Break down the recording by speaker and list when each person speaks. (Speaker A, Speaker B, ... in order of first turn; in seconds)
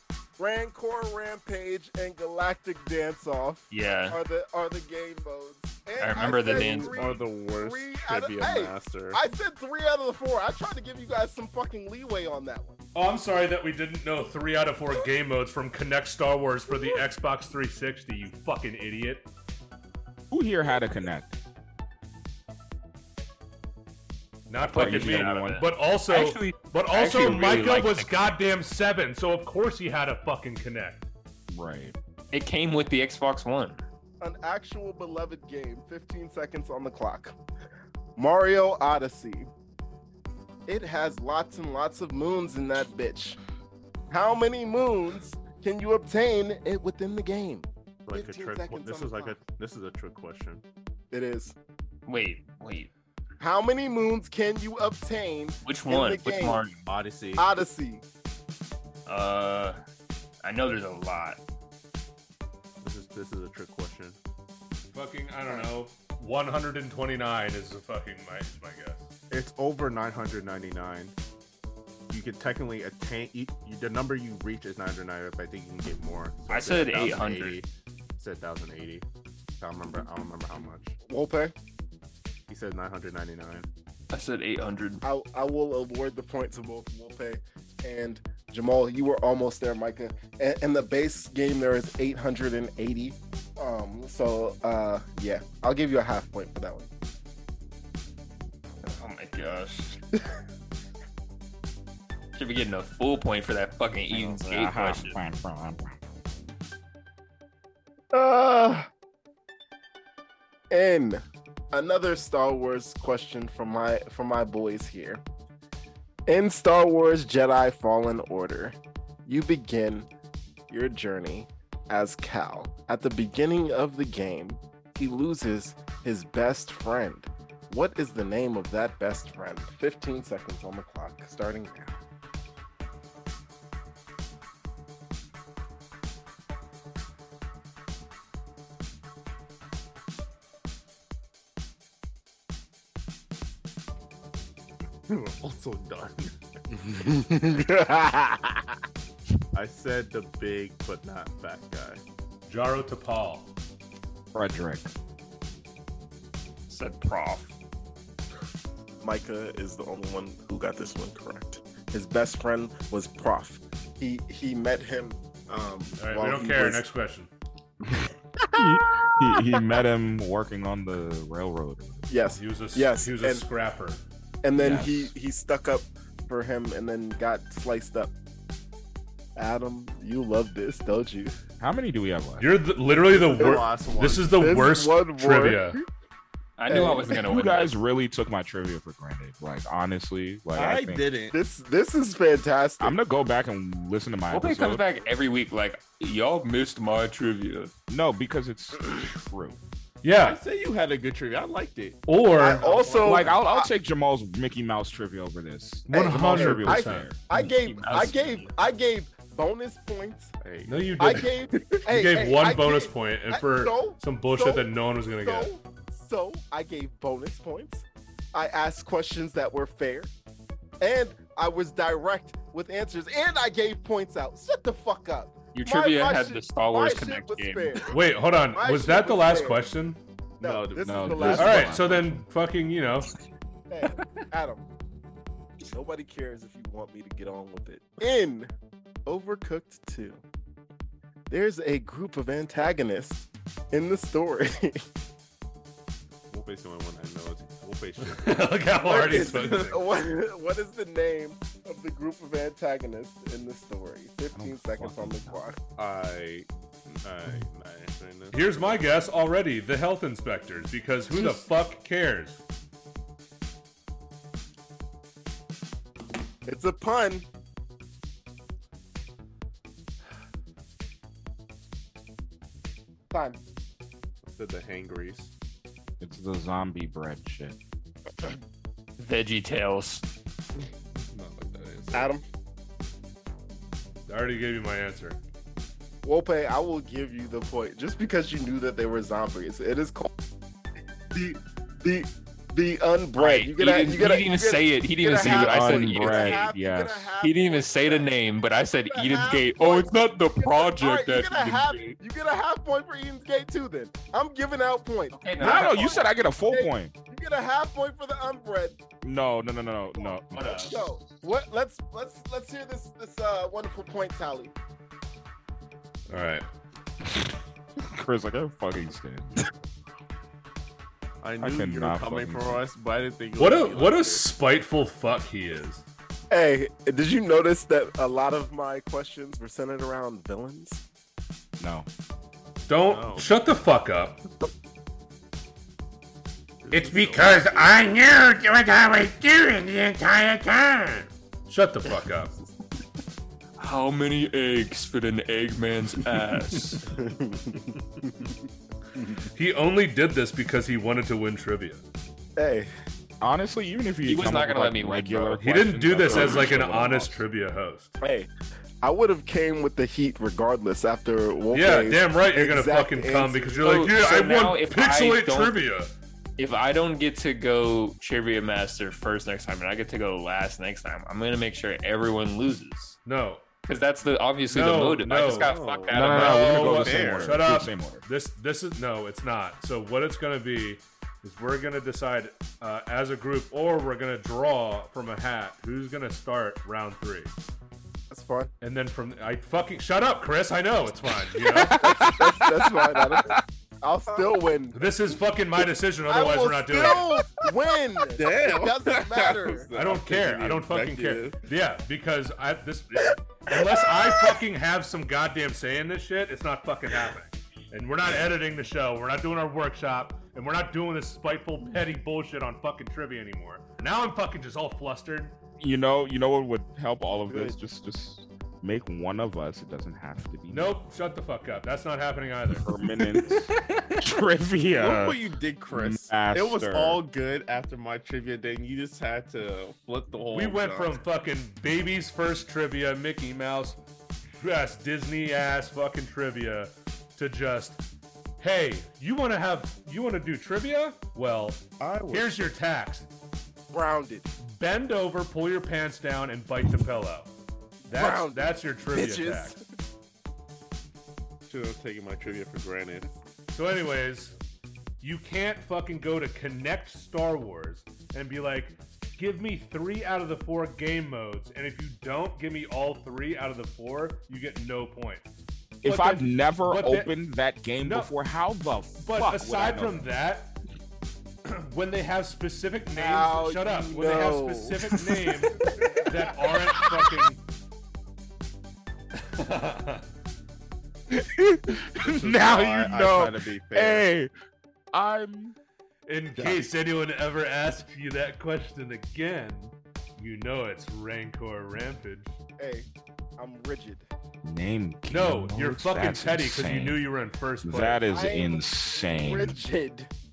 Speaker A: 0.4-12.8, 34.2-37.3, 38.2-39.5, 40.7-43.4, 44.1-49.4, 51.1-51.5, 53.4-56.6, 57.4-58.0, 81.1-81.5, 85.0-96.9, 108.1-108.9, 110.7-115.2, 116.3-120.1, 120.7-132.0, 146.7-148.7, 159.0-166.8, 168.4-169.7, 172.1-173.4, 174.4-178.1, 179.3-181.3, 183.4-183.6, 184.4-185.9, 186.7-187.2, 191.3-193.0, 202.4-203.7, 205.9-210.3, 211.0-214.7, 215.2-220.1, 220.8-227.9, 228.5-229.6, 230.4-231.8, 233.7-234.7, 235.7-238.5, 239.1-240.2, 241.3-244.8, 248.8-255.6, 261.1-261.4, 266.4-267.2, 273.1-273.4, 281.9-282.2, 286.0-290.1, 291.1-298.1, 298.9-308.8, 310.0-314.5, 326.3-330.8, 346.9-348.2, 352.4-352.7, 358.0-358.3, 358.8-363.8, 388.1-388.5, 391.7-394.8, 396.1-399.7, 443.7-444.3, 447.9-449.6, 472.9-476.1, 492.6-494.1, 498.1-500.1
Speaker B: 3.7-4.2, 6.0-7.1, 24.7-28.2, 32.3-33.8, 52.1-52.9, 55.6-56.9, 59.0-59.8, 60.4-61.4, 76.5-77.6, 84.1-85.0, 98.8-100.0, 102.3-105.2, 156.7-157.6, 186.6-187.7, 194.3-197.7, 207.3-208.5, 225.5-227.8, 279.0-280.0, 293.1-296.5, 297.2-302.0, 305.1-305.9, 310.3-310.8, 343.6-346.8, 354.1-355.4, 363.6-365.6, 366.4-373.0, 373.7-376.6, 423.1-424.1
Speaker C: 6.2-9.2, 48.0-50.6, 56.8-57.6, 62.8-64.2, 69.3-71.1, 72.1-79.0, 79.6-80.9, 82.5-83.7, 145.1-146.3, 149.5-152.0, 183.1-184.4, 190.5-191.3, 200.2-203.4, 210.4-211.2, 230.4-231.6, 246.3-249.8, 255.8-258.7, 274.2-275.3, 281.1-282.1, 321.2-324.2, 332.9-333.3, 336.6-337.7, 375.1-377.4, 391.3-393.3, 397.2-397.5, 398.1-401.4, 424.7-431.0, 441.8-442.5, 451.5-453.1, 482.0-484.1
Speaker D: 12.9-19.3, 24.5-31.1, 64.9-69.0, 152.5-153.5, 166.0-167.3, 172.3-174.0, 182.4-185.8, 200.0-200.4, 202.1-202.7, 205.9-207.1, 210.7-215.5, 227.9-230.0, 231.3-233.1, 248.0-249.8, 258.3-262.4, 284.1-285.2, 316.1-316.4, 323.4-325.8, 332.7-334.2, 336.7-342.3, 349.3-351.8, 355.4-357.9, 361.5-365.9, 373.1-373.4, 374.5-387.3, 388.6-392.1, 394.7-397.1, 399.8-415.3, 420.5-422.6, 430.3-433.8, 434.4-437.8, 438.4-443.1, 444.4-447.3, 447.8-449.6, 453.5-454.3, 455.0-465.2, 465.8-467.1, 467.8-468.1, 469.0-470.5, 471.4-477.4, 479.2-480.1, 486.1-492.3, 495.1-498.0
Speaker E: 20.3-21.3, 24.7-25.6, 27.1-27.7, 31.5-31.9, 104.1-105.9, 154.3-154.9, 168.0-172.2, 174.5-175.1, 181.6-182.5, 186.7-191.1, 192.8-194.8, 197.9-199.6, 203.0-207.2, 230.8-232.2, 254.3-255.4, 276.0-277.6, 295.1-297.1, 305.4-306.9, 309.0-310.6, 317.8-319.5, 321.4-322.6, 331.6-331.9, 353.2-357.2, 375.9-378.0, 415.6-420.8, 422.6-425.2, 425.7-427.0, 465.8-470.1, 481.1-484.3, 484.9-485.6, 494.4-497.0, 497.6-499.6